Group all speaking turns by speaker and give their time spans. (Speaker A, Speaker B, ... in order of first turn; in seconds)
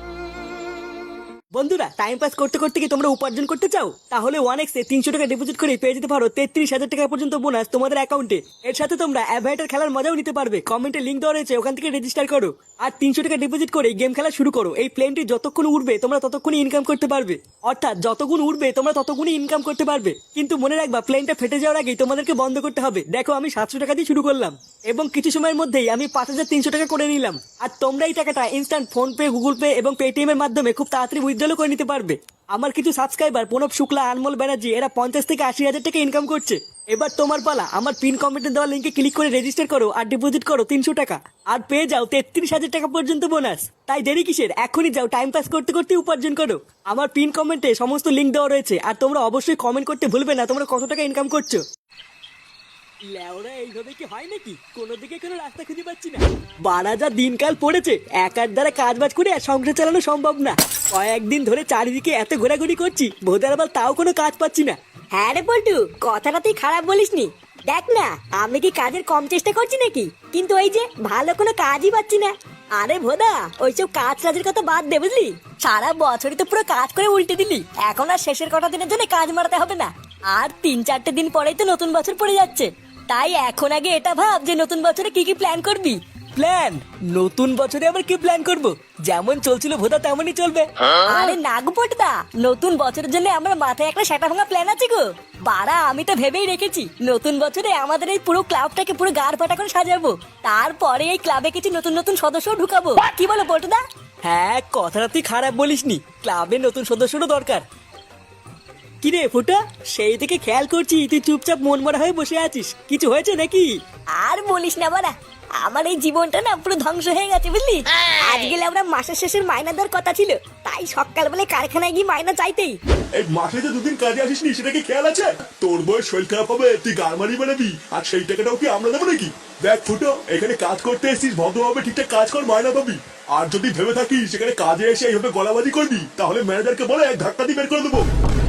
Speaker A: 1.5-51.6, 53.1-64.7, 86.4-90.6, 104.3-107.6, 109.0-113.7
Speaker B: 58.3-59.1, 63.8-86.0, 90.5-103.8, 112.4-112.7, 114.2-122.8
Speaker C: 123.1-138.0